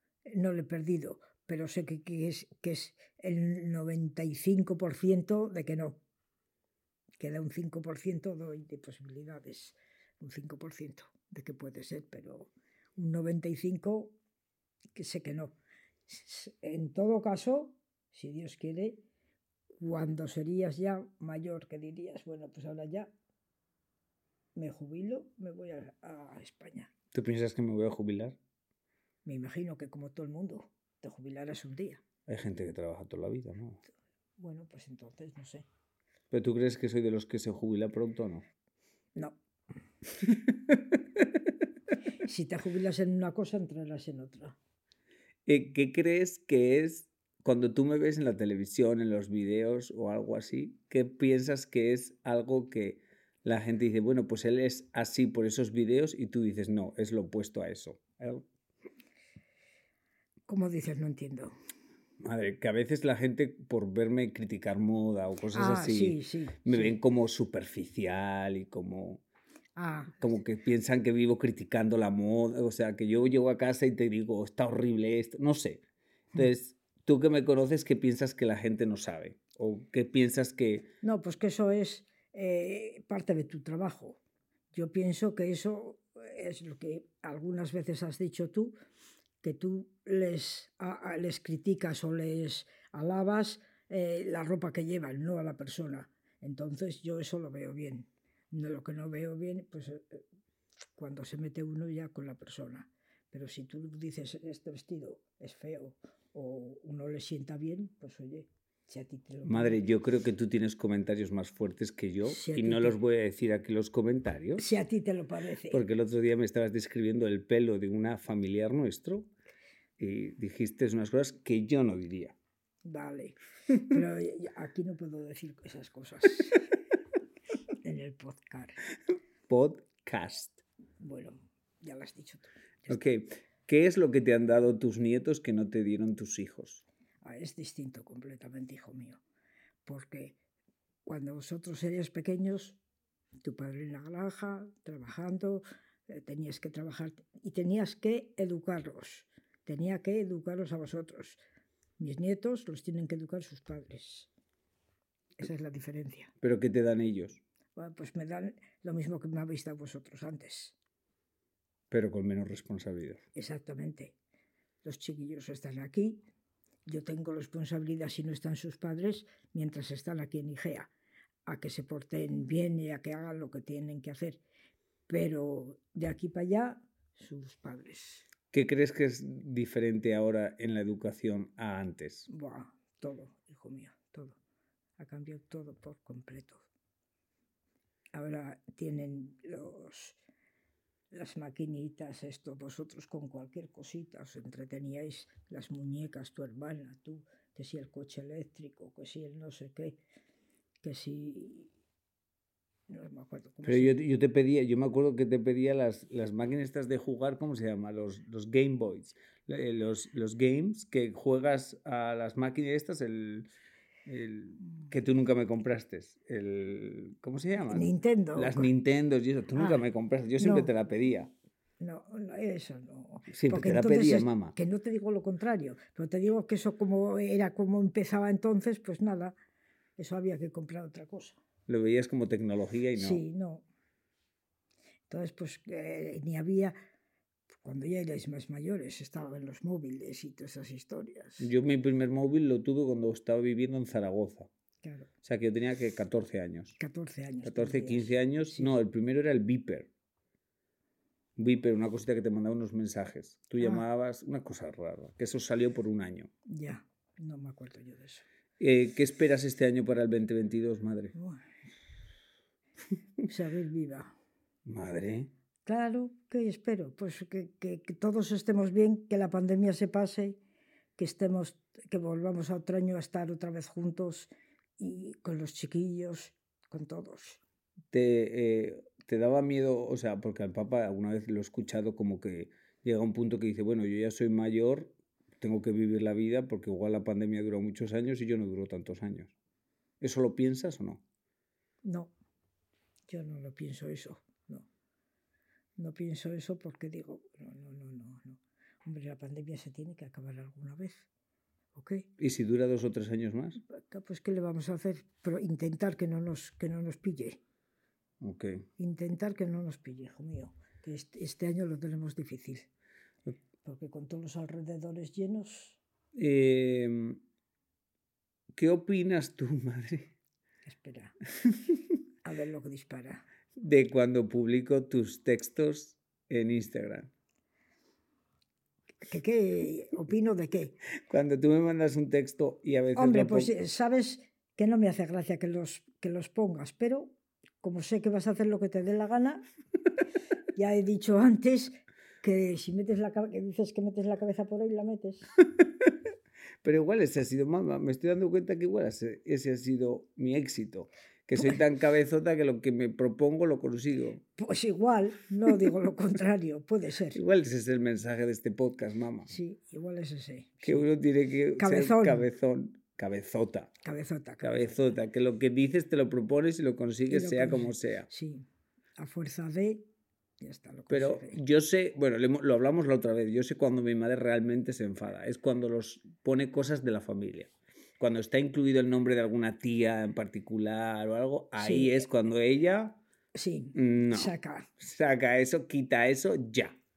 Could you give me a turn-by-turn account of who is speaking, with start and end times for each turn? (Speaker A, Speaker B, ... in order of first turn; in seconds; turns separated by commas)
Speaker A: 0.3-6.0, Speaker A: 7.2-14.2, Speaker A: 14.9-15.6, Speaker A: 16.1-19.0, Speaker A: 19.8-23.1, Speaker A: 24.6-26.9, Speaker B: 27.1-28.4, Speaker A: 29.2-32.0, Speaker B: 32.3-33.8, Speaker A: 34.4-35.7, Speaker B: 36.3-38.5, Speaker B: 40.2-41.2, Speaker A: 42.2-44.6, Speaker B: 45.5-58.5, Speaker A: 60.5-61.5, Speaker B: 62.2-69.2, Speaker A: 65.5-67.0, Speaker A: 69.8-70.2, Speaker B: 70.2-75.8, Speaker B: 76.3-80.9, Speaker A: 81.0-84.2, Speaker A: 84.7-88.7, Speaker A: 89.4-100.2, Speaker A: 101.0-109.8, Speaker B: 109.5-114.7, Speaker A: 112.2-113.0, Speaker A: 114.6-115.8, Speaker B: 115.7-119.3, Speaker B: 120.0-122.3, Speaker A: 122.8-126.6, Speaker A: 127.8-128.8, Speaker B: 129.5-130.6, Speaker A: 131.0-133.0, Speaker B: 132.9-136.8, Speaker A: 137.2-139.2, Speaker A: 139.8-140.4, Speaker A: 141.1-142.8, Speaker A: 143.4-151.4, Speaker A: 152.0-154.3, Speaker A: 155.4-156.3, Speaker B: 156.4-157.4, Speaker A: 157.8-160.8, Speaker B: 161.9-163.2, Speaker A: 163.3-164.2, Speaker A: 164.8-166.2, Speaker A: 166.9-170.9, Speaker A: 171.5-174.4, Speaker A: 175.1-178.3, Speaker B: 178.5-182.3, Speaker A: 182.3-184.4, Speaker A: 185.0-186.7, Speaker A: 188.1-190.2, Speaker A: 191.1-200.0, Speaker A: 200.8-201.7, Speaker A: 202.9-204.0, Speaker B: 203.6-213.5, Speaker B: 214.1-221.3, Speaker A: 217.6-218.7, Speaker A: 219.6-219.8, Speaker A: 220.4-220.7, Speaker A: 221.8-229.3, Speaker B: 223.3-224.6, Speaker A: 230.0-231.4, Speaker B: 231.7-233.2, Speaker A: 232.9-233.7, Speaker A: 235.1-236.8, Speaker A: 237.6-241.5, Speaker B: 241.4-244.5, Speaker A: 244.8-245.1, Speaker B: 245.2-246.8, Speaker A: 246.8-248.8, Speaker B: 247.4-249.9, Speaker B: 251.4-256.3, Speaker A: 256.5-258.2, Speaker B: 258.6-261.1, Speaker A: 261.1-261.4, Speaker A: 263.3-264.1, Speaker B: 264.7-265.3, Speaker A: 265.6-270.4, Speaker A: 271.0-277.4, Speaker B: 277.9-289.3, Speaker B: 290.0-291.0, Speaker A: 291.8-292.1, Speaker A: 293.1-294.7, Speaker A: 295.8-301.1, Speaker A: 301.7-302.1, Speaker B: 302.2-303.6, Speaker A: 303.6-307.4, Speaker B: 308.2-308.7, Speaker A: 308.8-312.7, Speaker A: 313.6-315.8, Speaker B: 316.1-317.2, Speaker B: 318.5-320.1, Speaker A: 320.7-321.2, Speaker A: 322.2-323.2, Speaker B: 323.6-327.1, Speaker A: 329.1-330.8, Speaker B: 331.1-333.5, Speaker A: 332.9-339.4, Speaker A: 340.5-345.4, Speaker B: 345.6-345.9, Speaker B: 346.6-354.2, Speaker A: 354.4-357.2, Speaker B: 357.1-359.4, Speaker A: 359.3-360.9, Speaker B: 360.6-363.8, Speaker A: 361.6-362.3, Speaker A: 363.8-364.9, Speaker B: 364.4-368.1, Speaker A: 367.1-369.9, Speaker A: 370.4-371.4, Speaker B: 370.9-383.0, Speaker A: 381.6-382.0, Speaker A: 383.4-384.7, Speaker B: 383.7-386.8